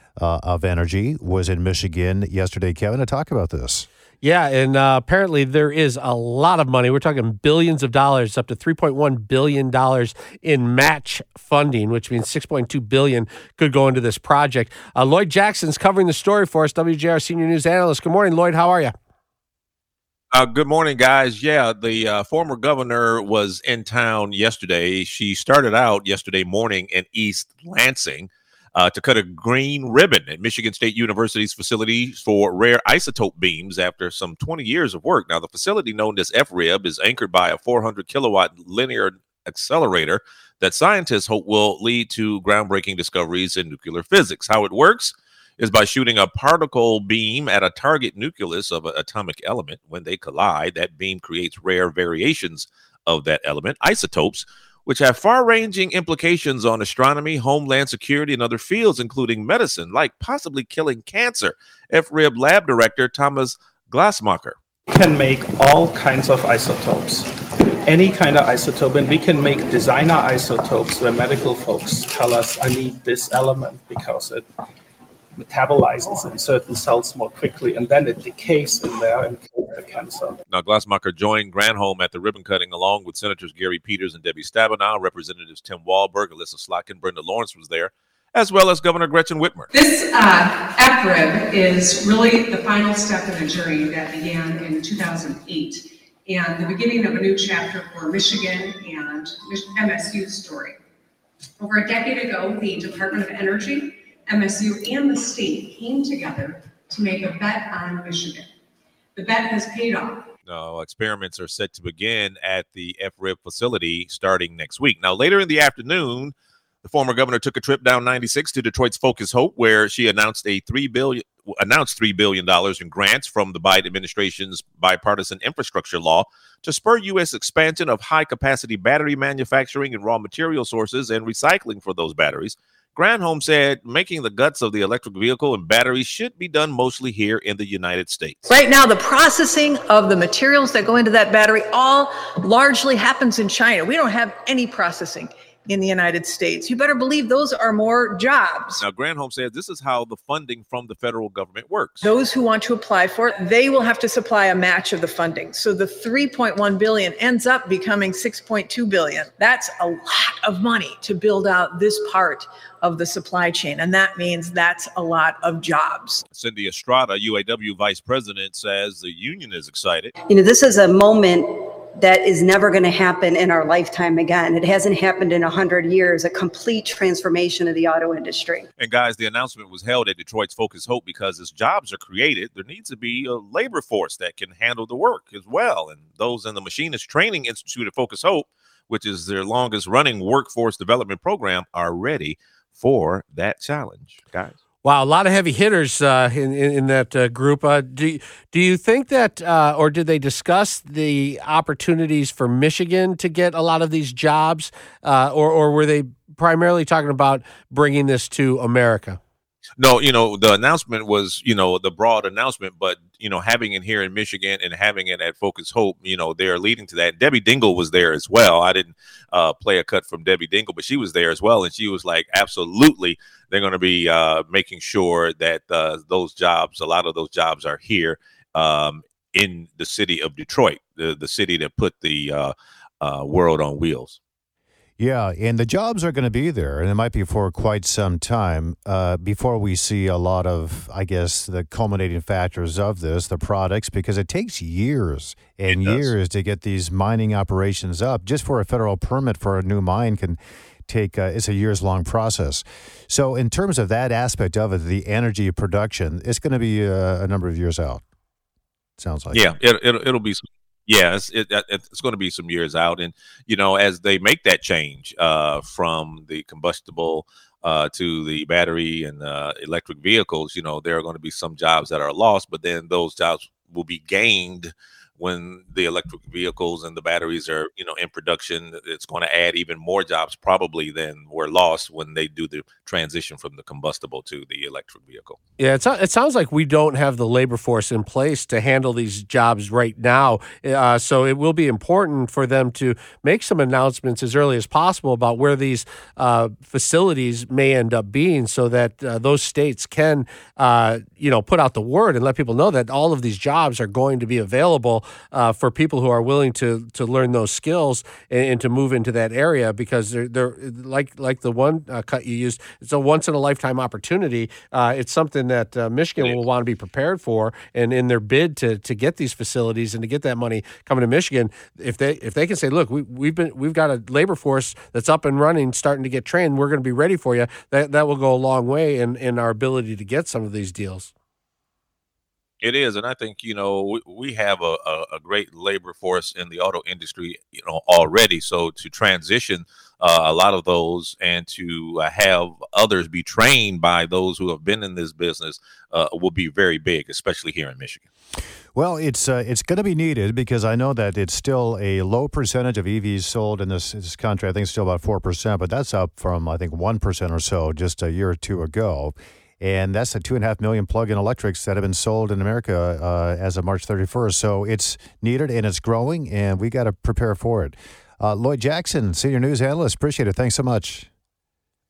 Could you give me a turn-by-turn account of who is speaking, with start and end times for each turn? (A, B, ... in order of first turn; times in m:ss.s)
0:00.2-0:03.8 A
0:04.2-0:18.9 B
0:20.3-1:04.6 C
1:04.9-1:07.3 D
1:07.8-1:14.4 D
1:15.4-1:20.4 D
1:20.5-1:29.7 C
1:29.7-1:40.8 E
1:41.6-1:48.5 E
1:49.2-1:50.2 E
1:50.4-2:18.4 C
2:18.5-2:28.8 F
2:28.8-2:32.1 C
2:32.0-2:46.2 F
2:46.3-2:50.1 C
2:50.3-2:58.7 G
2:58.8-3:14.5 C
3:14.8-3:29.2 B
3:29.8-3:54.2 C
3:55.0-4:18.0 A
4:05.7-4:06.1 C
4:19.0-4:19.4 A
4:19.3-4:45.4 C
4:45.6-5:31.1 B
5:32.6-5:48.0 C
5:48.7-6:11.1 A